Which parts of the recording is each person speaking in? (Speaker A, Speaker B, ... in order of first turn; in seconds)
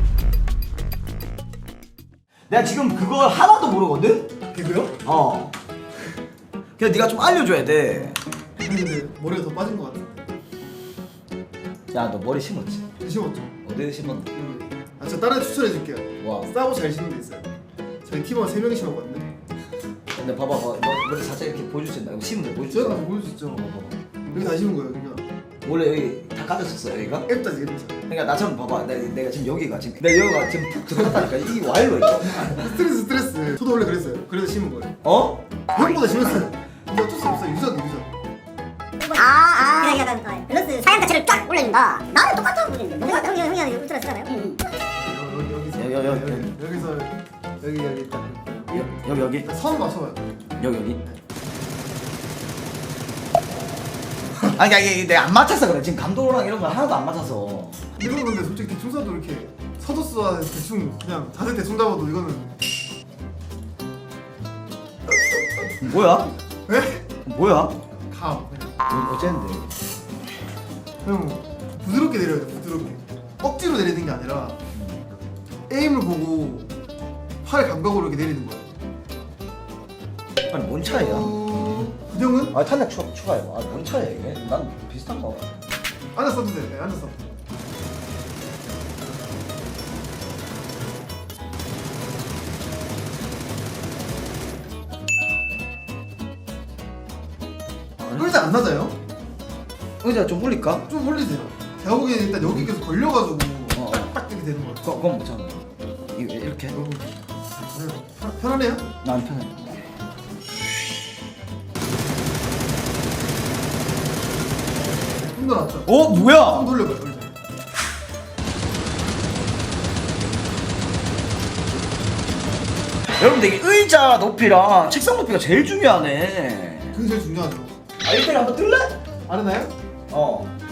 Speaker A: 2.5-4.3, 5.0-5.5, 6.8-8.2, 11.9-12.8, 13.6-14.3, 16.2-16.5, 20.1-24.0, 25.6-27.3, 28.1-32.8, 35.0-35.4, 45.8-46.6, 48.7-49.5, 50.6-51.0, 54.5-58.0, 65.8-66.3, 67.3-67.8, 68.8-69.7, 74.7-75.0, 80.5-82.0, 82.5-85.6, 100.0-100.9, 102.4-102.7, 103.7-104.1, 104.8-106.8, 109.0-109.8, 115.9-116.7, 123.2-127.0, 128.0-129.0, 130.1-130.5
Speaker B: 4.5-5.0, 8.6-10.2, 13.0-13.5, 14.3-17.5, 18.0-19.3, 22.7-23.7, 24.3-25.2, 27.3-28.0, 30.9-31.3, 32.5-34.9, 35.7-38.1, 45.0-51.2, 58.0-62.6, 66.7-67.0, 68.1-68.7, 71.0-74.6, 75.7-76.7, 77.4-78.7, 80.8-82.6, 86.2-87.2, 98.0-99.0, 100.9-105.0, 106.7-107.2, 107.7-108.9, 115.2-115.9, 116.4-117.3, 126.9-127.7, 129.3-129.7
Speaker C: 39.0-44.6